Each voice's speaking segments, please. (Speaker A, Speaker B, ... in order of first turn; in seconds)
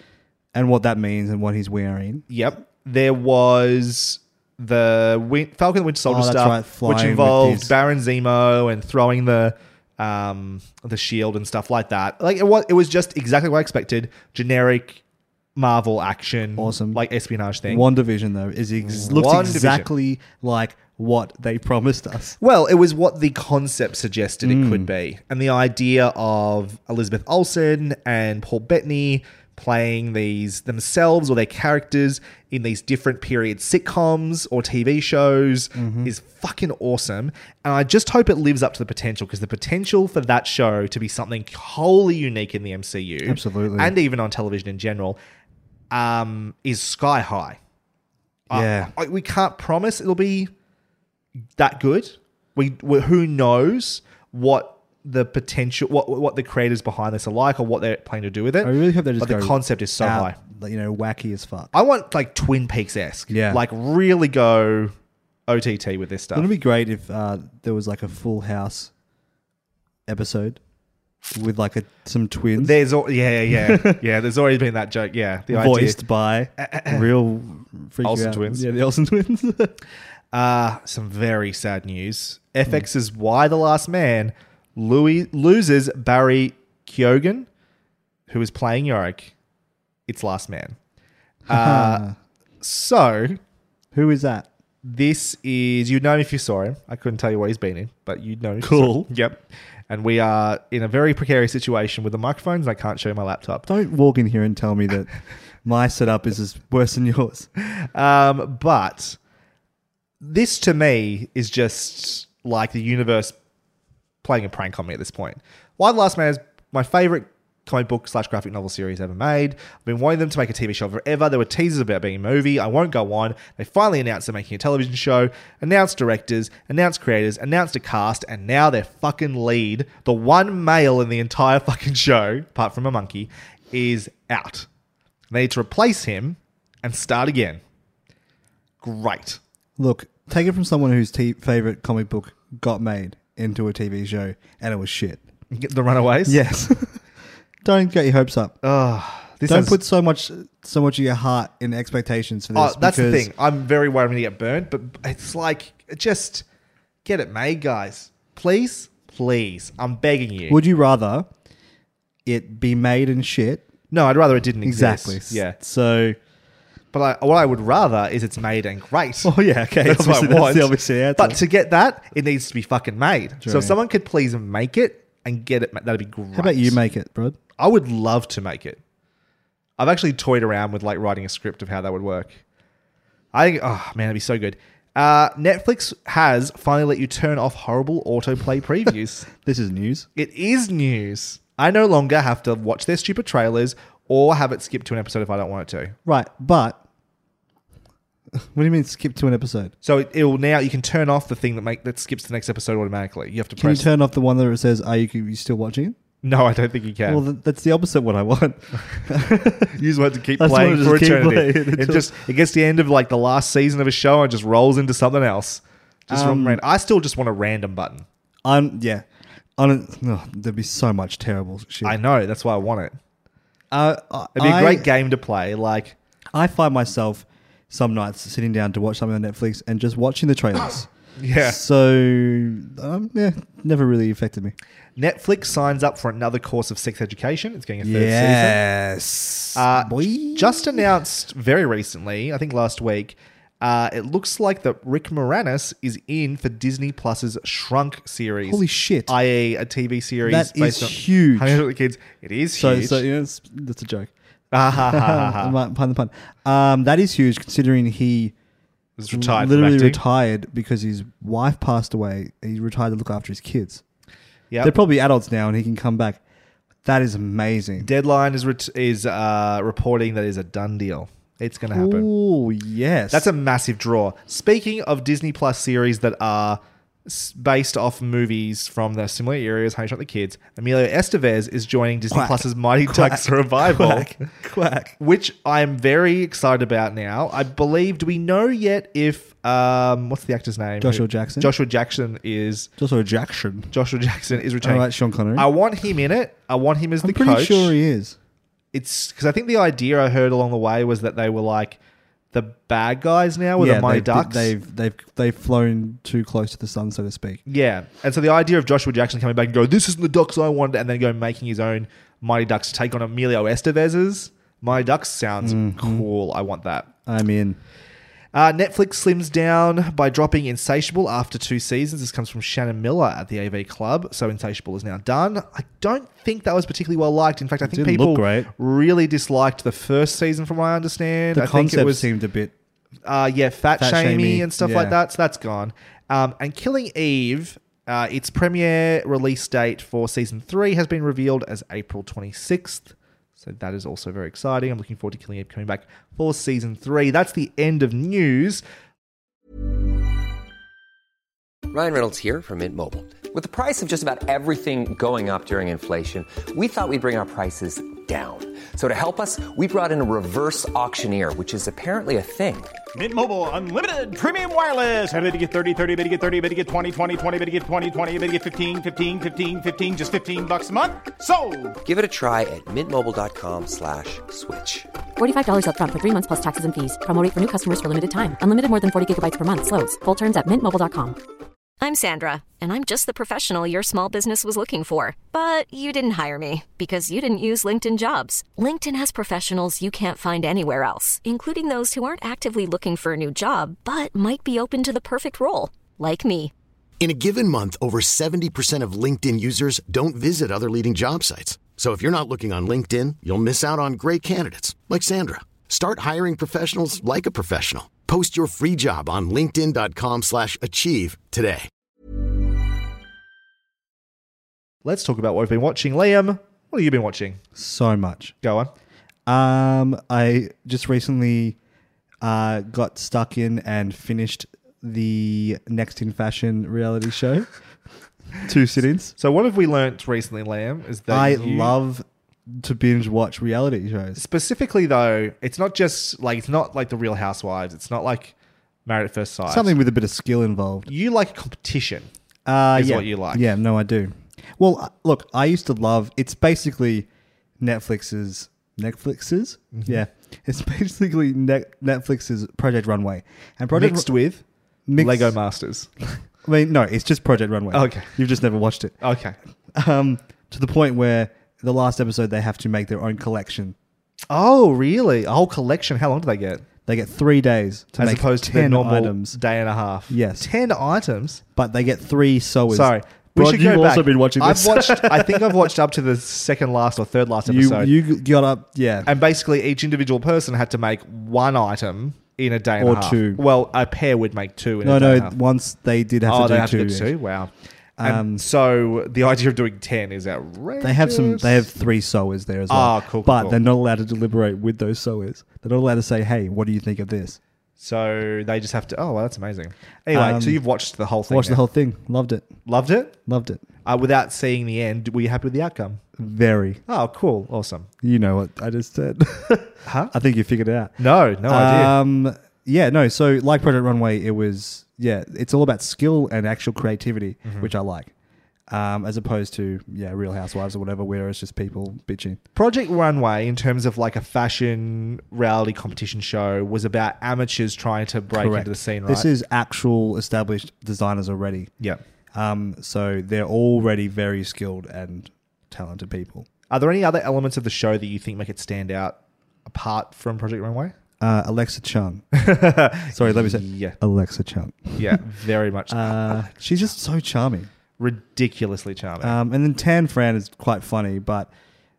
Speaker A: 0.5-2.2, 6.1-7.7, 16.6-17.0, 17.7-22.4, 24.4-24.9, 35.8-36.1, 43.2-44.0, 48.5-48.9, 58.6-61.7, 63.3-63.6, 66.3-68.9, 70.1-70.6, 71.3-72.8, 73.5-74.0, 75.5-79.8, 91.5-92.2, 93.9-94.5, 98.6-99.1, 103.7-107.5, 139.8-145.2, 146.3-147.0, 147.6-148.6, 149.4-153.3, 160.5-161.3, 162.3-163.7, 164.6-166.2, 169.2-171.4, 173.4-173.8, 176.3-177.4, 189.4-190.1, 196.1-196.8, 198.3-199.7, 203.6-206.0, 207.1-209.8, 210.4-212.2, 216.1-216.6, 218.4-219.1, 219.6-222.0, 223.7-224.9, 226.3-234.6, 237.8-240.9, 248.4-249.1, 250.2-251.6, 252.6-254.1, 254.7-258.3, 259.1-263.8, 264.6-266.2, 266.8-267.9, 271.7-273.3, 282.1-285.0, 290.8-291.5, 292.8-293.7, 294.6-295.5, 297.0-298.2, 303.6-307.4, 315.4-316.1, 317.1-317.6, 327.6-328.5, 331.3-332.5, 333.8-335.0, 417.6-418.4, 419.3-421.6, 422.2-427.5, 428.4-429.1, 431.1-434.2, 439.5-440.9, 442.5-447.1, 447.6-454.1, 454.9-455.4, 456.4-459.0, 459.7-463.8, 466.9-469.4, 470.1-470.5, 471.6-475.7, 477.5-479.1, 482.8-483.4, 484.8-487.1, 488.0-488.4, 490.8-497.4, 500.1-500.6, 501.3-502.5, 503.3-503.6, 506.2-506.8, 508.0-518.1, 518.7-522.4, 528.3-531.7, 532.3-536.5, 541.2-542.3, 543.1-545.2, 545.9-547.7, 549.2-551.5
Speaker B: 2.3-15.0, 15.6-17.9, 18.9-19.9, 22.4-45.2, 45.9-47.6, 48.5-50.5, 51.6-60.4, 61.7-64.9, 65.5-66.5, 72.6-76.0, 76.6-77.1, 78.0-78.7, 80.3-87.5, 88.3-89.3, 90.1-90.8, 91.5-92.1, 92.6-93.4, 94.8-103.7, 107.6-109.2, 110.2-113.3, 114.2-134.7, 135.3-137.6, 138.8-139.4, 145.5-146.4, 148.6-149.8, 152.6-156.4, 157.1-160.6, 163.9-165.6, 166.9-176.8, 177.6-178.8, 179.8-182.4, 183.3-189.3, 190.2-196.0, 199.8-203.9, 206.2-207.2, 209.7-218.1, 221.8-222.9, 224.3-226.0, 231.2-231.6, 235.0-238.6, 239.5-253.0, 254.5-255.6, 259.0-260.0, 267.8-272.1, 273.1-284.2, 285.0-292.7, 293.7-297.8, 298.7-301.8, 302.3-304.5, 307.5-316.9, 318.3-332.1, 333.1-348.6, 414.9-417.4, 418.4-418.7, 429.2-431.8, 434.2-438.3, 438.9-439.8, 440.9-442.1, 442.7-443.5, 449.7-450.0, 453.7-454.4, 455.0-455.9, 457.7-458.1, 459.0-459.4, 464.3-466.6, 468.0-471.4, 472.7-477.9, 479.1-485.4, 486.3-491.7, 492.7-493.6, 497.8-501.6, 502.7-503.1, 503.8-506.0, 506.9-507.9, 509.9-510.1, 511.0-511.9, 517.4-517.7, 522.5-529.3, 536.7-541.0, 542.3-544.0, 545.0-546.9, 548.0-549.4
Speaker C: 351.7-362.8, 371.8-374.9
Speaker D: 362.9-371.8
Speaker E: 375.2-381.2
Speaker F: 381.8-396.5
Speaker G: 397.0-411.7